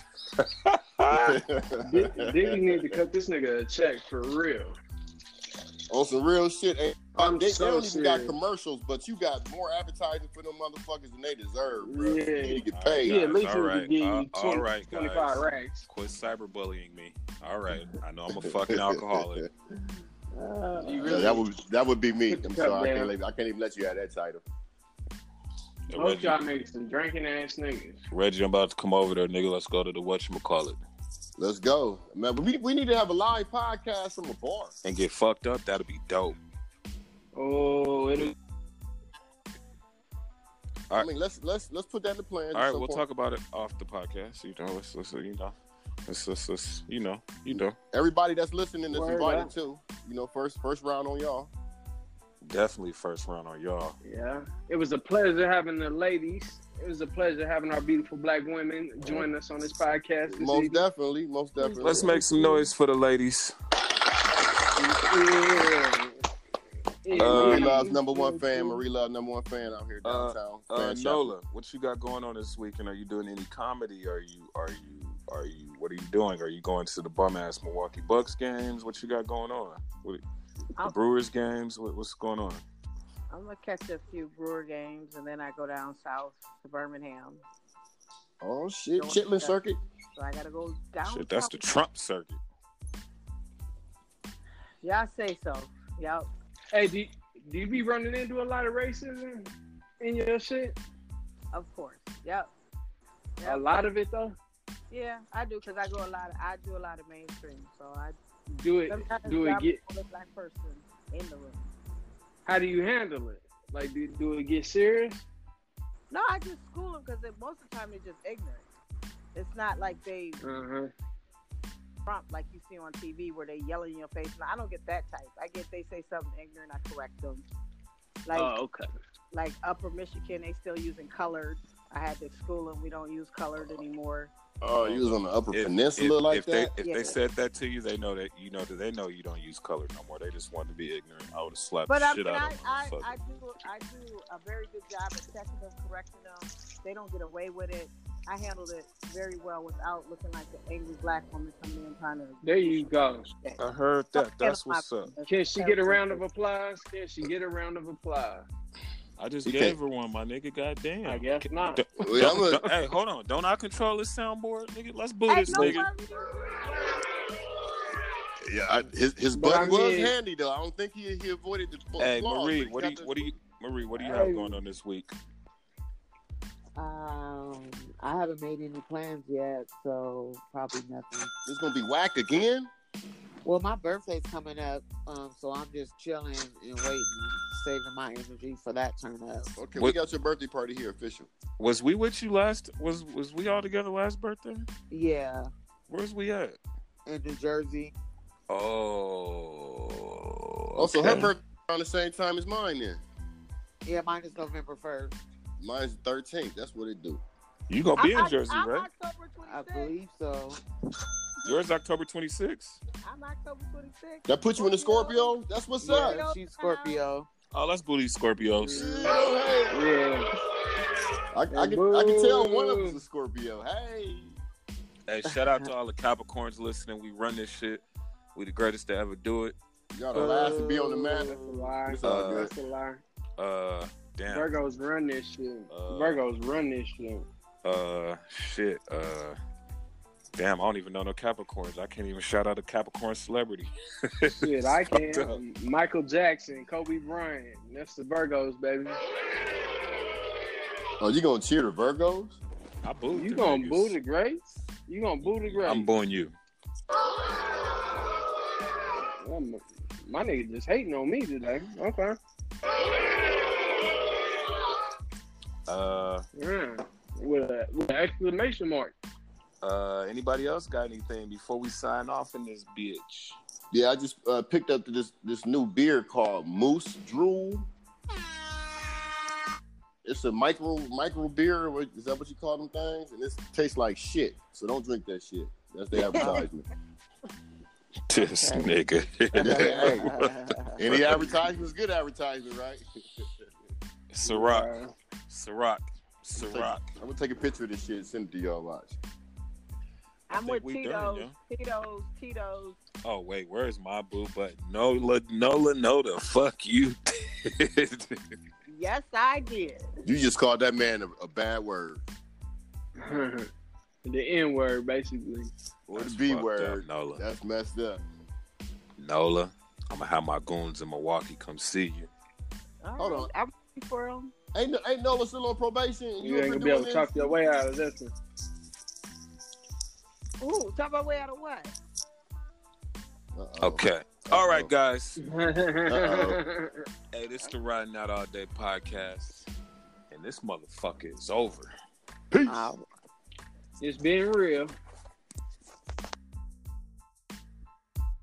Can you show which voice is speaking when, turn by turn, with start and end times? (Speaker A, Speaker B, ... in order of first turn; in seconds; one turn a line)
Speaker A: 0.4-1.4
Speaker B: 1.1-2.9
Speaker C: 1.8-4.8
Speaker B: 5.9-13.2
Speaker C: 7.2-8.3
Speaker C: 11.8-15.9
Speaker A: 12.7-19.5
Speaker B: 18.4-19.5
Speaker C: 20.4-21.4
Speaker B: 21.0-24.4
Speaker C: 22.3-23.1
Speaker A: 25.9-26.4
Speaker C: 25.9-28.0
Speaker A: 28.1-30.8
Speaker B: 31.4-34.7
Speaker A: 34.8-36.4
Speaker C: 37.4-38.3
Speaker B: 40.9-43.0
Speaker A: 42.5-45.5
Speaker A: 46.1-47.8
Speaker B: 47.9-51.5
Speaker C: 48.9-49.5
Speaker A: 52.4-54.0
Speaker C: 54.0-60.8
Speaker B: 60.3-62.7
Speaker A: 61.8-63.5
Speaker C: 64.8-66.2
Speaker C: 67.0-68.0
Speaker B: 67.1-71.3
Speaker A: 67.2-67.9
Speaker A: 70.0-80.2
Speaker A: 80.8-82.6
Speaker D: 83.3-87.4
Speaker B: 88.4-89.8
Speaker D: 89.0-89.6
Speaker D: 90.2-91.7
Speaker A: 91.0-92.4
Speaker D: 94.8-96.3
Speaker C: 96.7-100.8
Speaker D: 101.5-102.5
Speaker C: 103.4-104.4
Speaker D: 104.9-108.2
Speaker C: 108.5-109.8
Speaker D: 108.9-111.7
Speaker C: 112.5-115.2
Speaker D: 116.1-118.6
Speaker D: 119.3-120.4
Speaker C: 120.4-120.9
Speaker D: 122.1-127.5
Speaker D: 128.3-128.5
Speaker C: 128.3-128.9
Speaker D: 129.3-134.3
Speaker B: 134.6-136.7
Speaker A: 134.8-143.1
Speaker D: 136.8-137.2
Speaker D: 141.9-152.9
Speaker C: 152.4-153.3
Speaker A: 153.6-155.1
Speaker D: 154.1-156.2
Speaker C: 155.3-158.5
Speaker A: 159.2-165.9
Speaker B: 159.4-159.8
Speaker C: 161.1-161.9
Speaker B: 162.0-162.7
Speaker D: 165.3-167.1
Speaker B: 165.5-165.8
Speaker B: 168.4-173.3
Speaker C: 169.3-170.1
Speaker A: 172.0-175.1
Speaker C: 174.0-174.5
Speaker E: 176.8-181.3
Speaker B: 181.5-182.7
Speaker E: 183.4-189.5
Speaker B: 189.6-191.3
Speaker A: 191.6-194.7
Speaker E: 194.9-195.5
Speaker A: 195.9-196.6
Speaker E: 197.1-197.9
Speaker A: 198.5-201.3
Speaker B: 200.8-203.0
Speaker E: 203.8-205.2
Speaker B: 205.6-207.2
Speaker A: 207.7-208.9
Speaker D: 208.0-209.9
Speaker E: 209.4-210.6
Speaker A: 211.4-212.8
Speaker D: 213.0-217.0
Speaker B: 214.3-216.2
Speaker E: 215.8-217.3
Speaker A: 217.5-219.2
Speaker C: 218.5-219.2
Speaker B: 218.8-219.9
Speaker C: 219.7-220.3
Speaker B: 221.3-224.4
Speaker C: 221.5-223.0
Speaker A: 225.1-227.8
Speaker A: 228.3-229.6
Speaker B: 229.9-232.5
Speaker E: 230.1-231.7
Speaker C: 231.2-233.0
Speaker A: 232.0-232.5
Speaker A: 233.4-234.5
Speaker C: 234.3-237.3
Speaker A: 235.7-236.2
Speaker A: 237.6-239.4
Speaker A: 240.3-245.4
Speaker C: 244.4-249.0
Speaker B: 251.0-252.4
Speaker A: 252.8-254.0
Speaker C: 253.1-255.9
Speaker A: 255.2-256.4
Speaker C: 258.9-262.2
Speaker A: 265.7-266.3
Speaker C: 266.4-268.9
Speaker A: 269.6-273.4
Speaker B: 273.7-277.7
Speaker B: 280.0-286.7
Speaker E: 286.1-286.4
Speaker A: 288.1-291.4
Speaker E: 288.2-288.7
Speaker B: 289.3-290.1
Speaker E: 289.4-290.8
Speaker B: 290.8-293.3
Speaker A: 294.1-294.7
Speaker C: 294.2-294.9
Speaker A: 295.3-296.9
Speaker B: 296.4-299.0
Speaker D: 300.3-302.8
Speaker A: 300.3-301.3
Speaker A: 303.1-308.4
Speaker D: 308.7-309.9
Speaker B: 310.0-312.0
Speaker C: 313.0-313.5
Speaker C: 314.1-315.5
Speaker B: 315.9-318.0
Speaker A: 315.9-317.2
Speaker A: 319.0-322.1
Speaker D: 322.8-324.3
Speaker B: 323.0-323.3
Speaker B: 324.5-327.5
Speaker C: 326.2-328.1
Speaker D: 330.4-331.7
Speaker B: 333.4-334.7
Speaker A: 333.6-335.2
Speaker C: 335.2-336.9
Speaker B: 335.9-336.4
Speaker A: 337.1-339.5
Speaker A: 340.1-341.7
Speaker B: 342.3-342.7
Speaker E: 342.4-342.8
Speaker C: 343.8-344.8